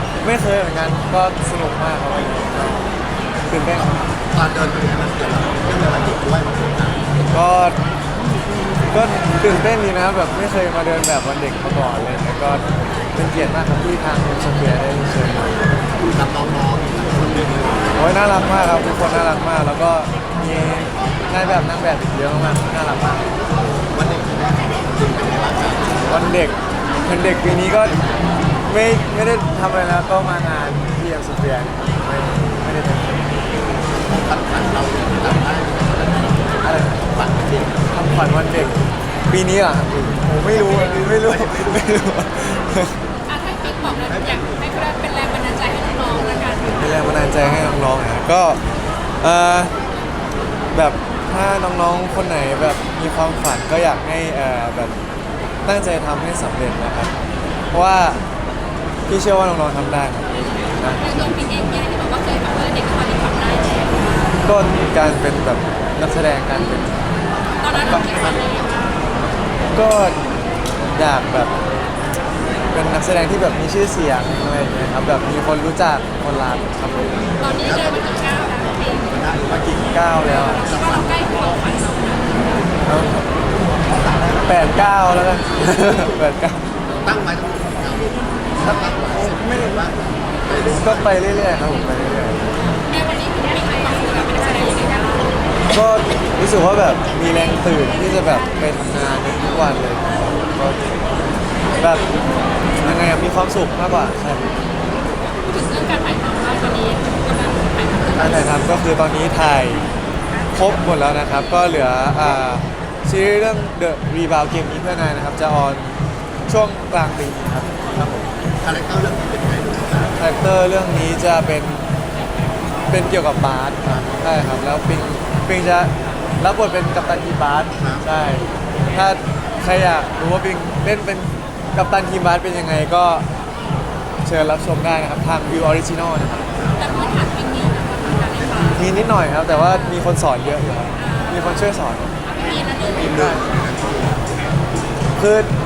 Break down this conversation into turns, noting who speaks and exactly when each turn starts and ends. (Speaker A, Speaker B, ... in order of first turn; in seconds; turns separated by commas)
Speaker A: 0.2-2.9, Speaker A: 3.5-3.9, Speaker B: 3.8-7.1, Speaker A: 7.3-7.8, Speaker A: 8.9-15.6, Speaker B: 16.0-17.9, Speaker A: 18.0-23.3, Speaker B: 23.9-26.1, Speaker A: 26.1-28.0, Speaker A: 28.7-33.3, Speaker B: 33.9-37.9, Speaker A: 36.6-37.0, Speaker A: 37.9-38.7, Speaker A: 39.3-43.0, Speaker B: 40.5-42.0, Speaker C: 43.3-46.7, Speaker B: 44.0-44.6, Speaker B: 46.3-46.6, Speaker A: 46.8-48.6, Speaker A: 49.2-49.7, Speaker A: 50.7-55.0, Speaker A: 55.6-57.1, Speaker A: 57.7-58.2, Speaker A: 59.1-61.3, Speaker C: 61.0-64.3, Speaker A: 64.4-67.0, Speaker B: 67.4-69.0, Speaker C: 67.6-69.0, Speaker A: 69.7-70.2, Speaker A: 71.0-71.5, Speaker A: 72.7-77.5, Speaker C: 77.4-79.0, Speaker B: 77.6-79.8, Speaker A: 79.5-80.7, Speaker C: 80.4-82.4, Speaker B: 80.6-81.6, Speaker A: 82.9-83.2, Speaker B: 83.8-84.5, Speaker A: 84.4-86.6, Speaker B: 87.0-91.2, Speaker A: 88.6-89.8, Speaker A: 90.8-92.6, Speaker C: 92.9-95.2, Speaker A: 95.7-100.9, Speaker A: 102.8-104.5, Speaker C: 105.4-108.5, Speaker A: 108.2-109.9, Speaker A: 110.5-118.3, Speaker B: 118.6-120.2, Speaker A: 120.2-121.9, Speaker A: 122.9-133.2, Speaker B: 127.8-128.0, Speaker A: 134.2-136.5, Speaker B: 136.5-137.2, Speaker C: 136.8-138.8, Speaker A: 138.7-142.1, Speaker C: 139.6-139.9, Speaker C: 141.0-141.5, Speaker C: 142.2-143.1, Speaker B: 142.9-144.2, Speaker A: 143.1-143.4, Speaker A: 145.2-145.5